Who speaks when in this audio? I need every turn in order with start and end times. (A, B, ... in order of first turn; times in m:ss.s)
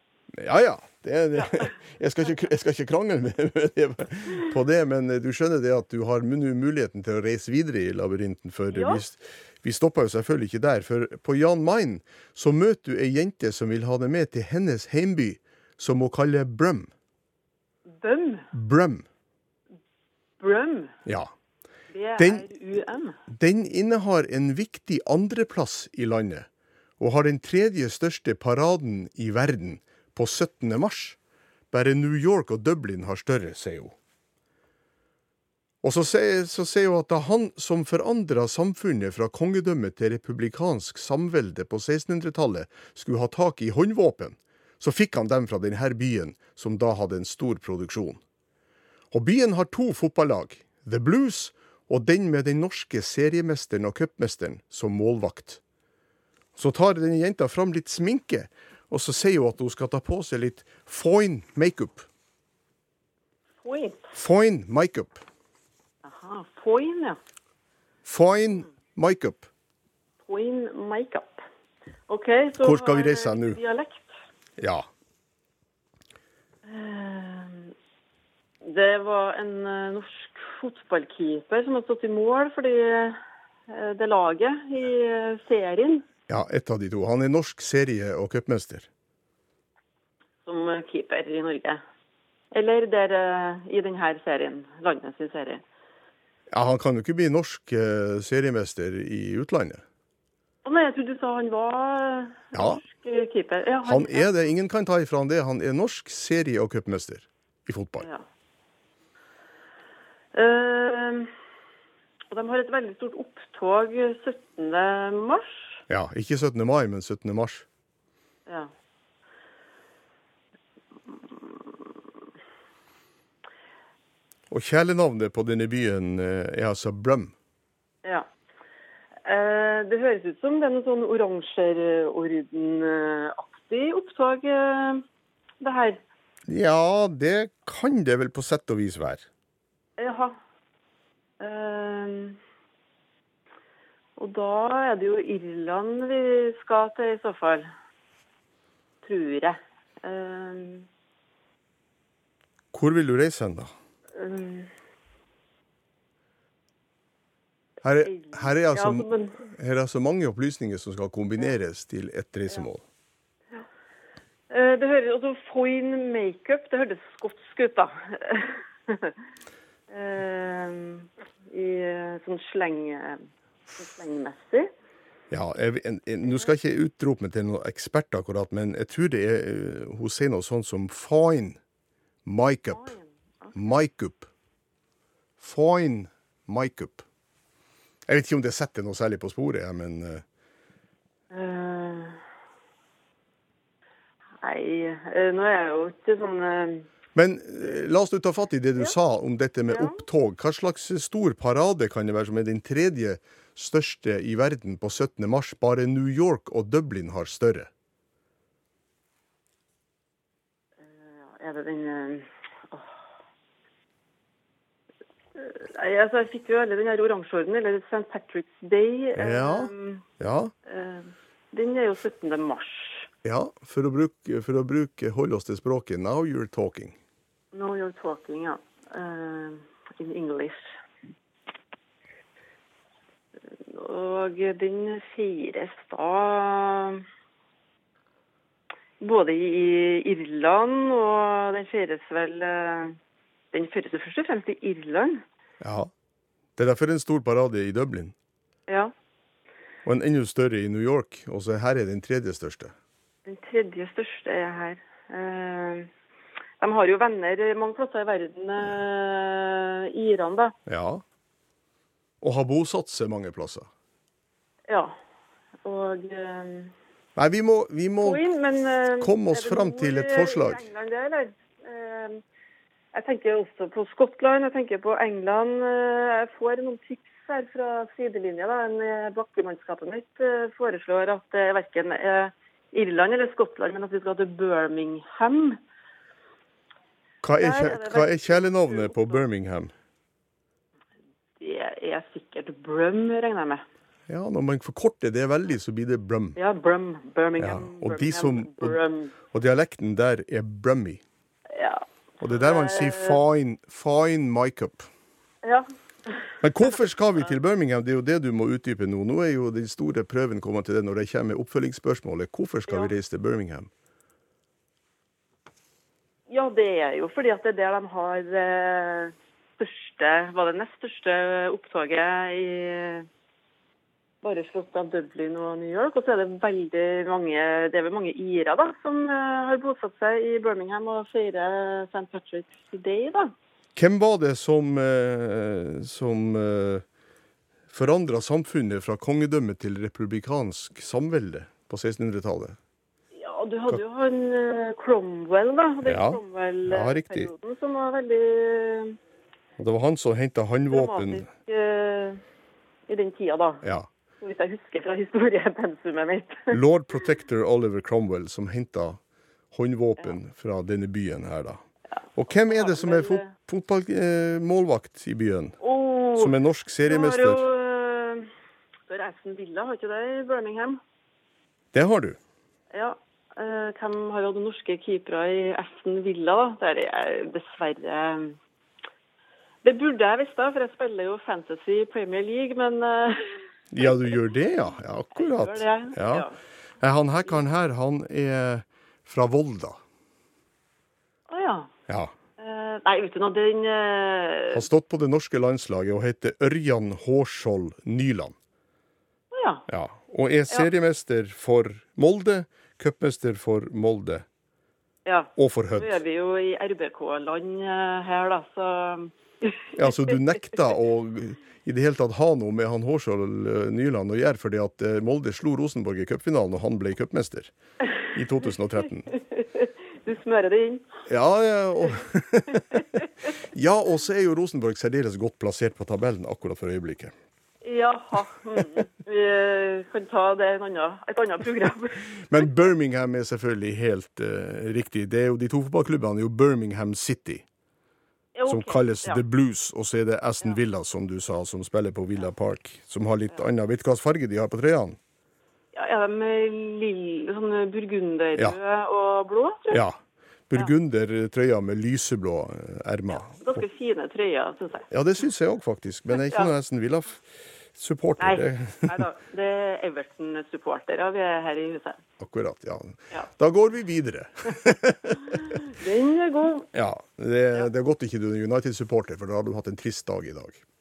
0:00.3-0:16.9 A
0:01.4-0:01.7 B
0:08.7-0:09.0 B
0:18.0-0:18.5 B
0:18.5-0:19.1 A
0:20.4-0:21.0 B
0:21.1-0:21.3 A
0:21.9-0:23.2 B
0:22.2-0:22.4 A
0:23.3-0:26.5 A
0:27.0-0:31.2 A
0:31.7-0:34.0 A
0:35.8-0:48.2 A
0:49.1-0:55.6 A
0:56.6-1:02.1 A
1:03.6-1:04.2 B
1:04.1-1:05.2 A
1:06.0-1:07.2 B
1:08.0-1:09.5 A
1:10.2-1:11.4 B
1:12.1-1:14.2 B
1:12.6-1:13.6 A
1:14.6-1:14.9 A
1:16.6-1:17.7 B
1:18.6-1:23.2 B
1:23.7-1:26.0 B
1:26.3-1:28.9 A
1:30.5-1:31.8 B
1:32.5-1:35.6 B
1:36.5-1:39.8 A
1:40.6-1:44.3 B
1:42.5-1:42.8 A
1:43.8-1:48.1 A
1:48.0-1:48.2 B
1:50.3-1:51.3 B
1:52.3-1:55.8 B
1:55.9-1:57.7 A
2:04.5-2:07.3 A
2:09.2-2:15.0 B
2:15.6-2:16.0 B
2:16.5-2:19.3 A
2:20.0-2:20.4 B
2:21.4-2:22.4 B
2:24.2-2:27.7 B
2:29.0-2:30.9 B
2:32.7-2:33.7 A
2:34.2-2:34.7 B
2:37.8-2:42.8 A
2:38.0-2:39.4 B
2:44.5-2:49.2 B
2:49.9-2:54.7 B
2:55.3-3:01.6 A
3:02.2-3:03.0 A
3:02.7-3:03.8 B
3:03.6-3:04.3 A
3:05.4-3:07.1 A
3:08.1-3:10.2 A
3:11.3-3:12.2 B
3:14.4-3:16.9 B
3:17.2-3:27.7 A
3:19.7-3:20.0 B
3:31.0-3:33.0 B
3:35.4-3:40.0 B
3:39.2-3:40.5 A
3:40.7-3:43.1 B
3:43.2-3:47.0 A
3:47.5-3:50.7 B
3:53.7-3:57.0 B
3:59.0-4:03.0 B
4:03.5-4:05.2 B
4:05.6-4:05.9 A
4:06.6-4:08.2 A
4:09.8-4:12.8 A
4:13.3-4:15.9 B
4:16.6-4:20.6 B
4:20.7-4:21.0 A
4:22.2-4:23.7 A
4:24.7-4:25.0 B
4:25.6-4:26.7 B
4:27.2-4:28.2 A
4:28.0-4:32.2 B
4:29.0-4:30.6 A
4:32.9-4:45.6 B
4:47.2-4:49.7 A
4:47.3-4:49.2 B
4:51.4-4:53.6 B
4:54.1-4:56.4 A
4:56.4-4:59.1 B
4:57.4-5:01.0 A
5:01.5-5:03.2 B
5:02.2-5:04.9 A
5:05.4-5:06.2 B
5:06.4-5:13.7 A
5:16.3-5:23.1 B
5:24.2-5:33.3 B
5:33.8-5:36.8 A
5:37.7-5:42.6 A
5:43.1-5:49.0 B
5:45.9-5:47.3 A
5:49.6-5:51.3 A
5:50.7-5:52.2 B
5:52.9-5:53.6 B
5:53.6-5:53.9 A
5:54.2-5:56.6 B
5:56.5-5:59.0 A
5:59.5-6:01.6 A
6:02.0-6:03.3 B
6:02.2-6:05.6 A
6:05.6-6:06.3 B
6:06.2-6:07.4 A
6:06.8-6:08.3 B
6:08.9-6:10.8 B
6:11.7-6:12.2 A
6:12.7-6:18.4 B
6:19.6-6:24.1 B
6:23.7-6:26.3 A
6:25.1-6:26.4 B
6:26.8-6:29.8 A
6:31.3-6:31.7 B
6:31.9-6:32.1 A
6:32.4-6:34.7 B
6:34.5-6:38.4 A
6:39.3-6:39.7 B
6:39.7-6:44.3 A
6:45.1-6:50.2 B
6:45.4-6:46.0 A
6:49.8-6:57.5 A
6:58.1-6:59.1 A
6:59.1-7:00.9 B
7:01.1-7:02.8 A
7:02.5-7:02.8 B
7:03.5-7:07.1 A
7:07.6-7:12.5 B
7:12.2-7:17.4 A
7:18.4-7:19.2 B
7:18.5-7:25.0 A
7:25.7-7:29.8 B
7:29.7-7:30.0 A
7:30.5-7:33.6 A
7:33.3-7:34.9 B
7:34.9-7:39.0 A
7:36.2-7:36.5 B
7:38.2-7:42.0 B
7:42.2-7:45.6 A
7:45.2-7:46.7 B
7:46.7-7:50.6 A